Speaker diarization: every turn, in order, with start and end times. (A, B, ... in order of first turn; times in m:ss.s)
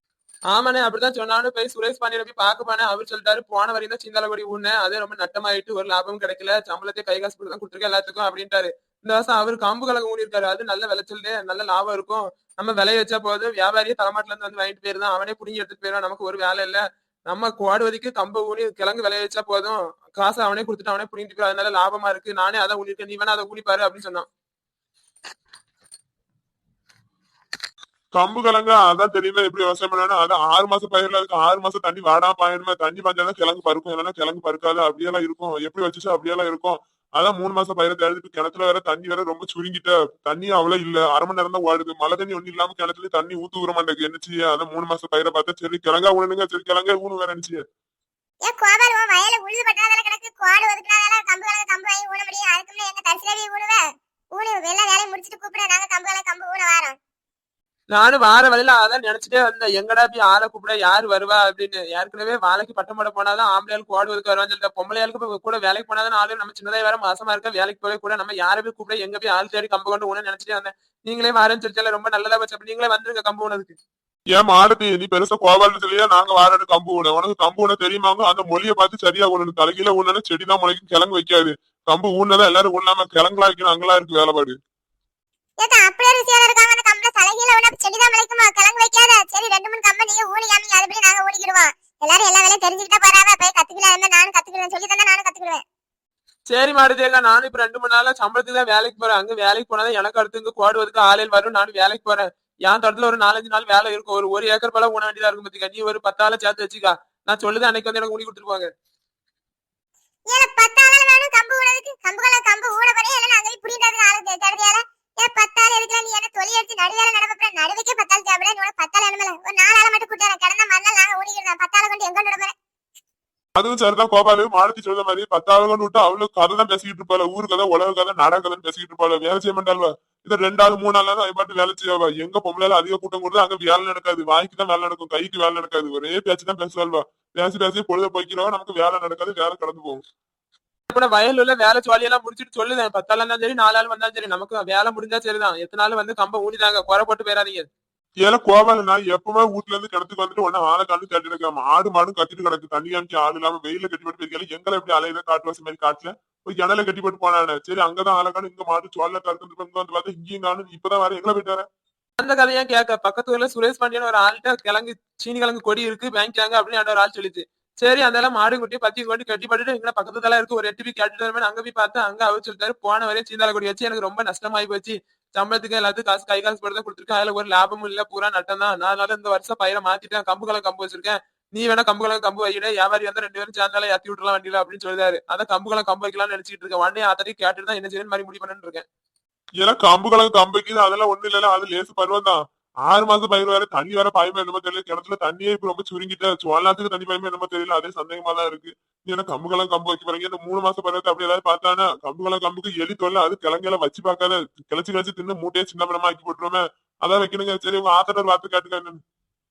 0:00.5-0:24.3 A
0:28.1-0:47.6 B
0:48.4-0:57.0 C
0:57.9-1:13.8 A
1:14.3-1:24.6 B
1:25.6-1:35.6 C
1:36.5-1:48.7 A
1:50.3-2:02.5 C
2:03.6-2:20.0 B
2:20.9-2:27.7 A
2:28.2-2:41.6 B
2:42.2-3:08.8 A
3:09.6-3:29.0 B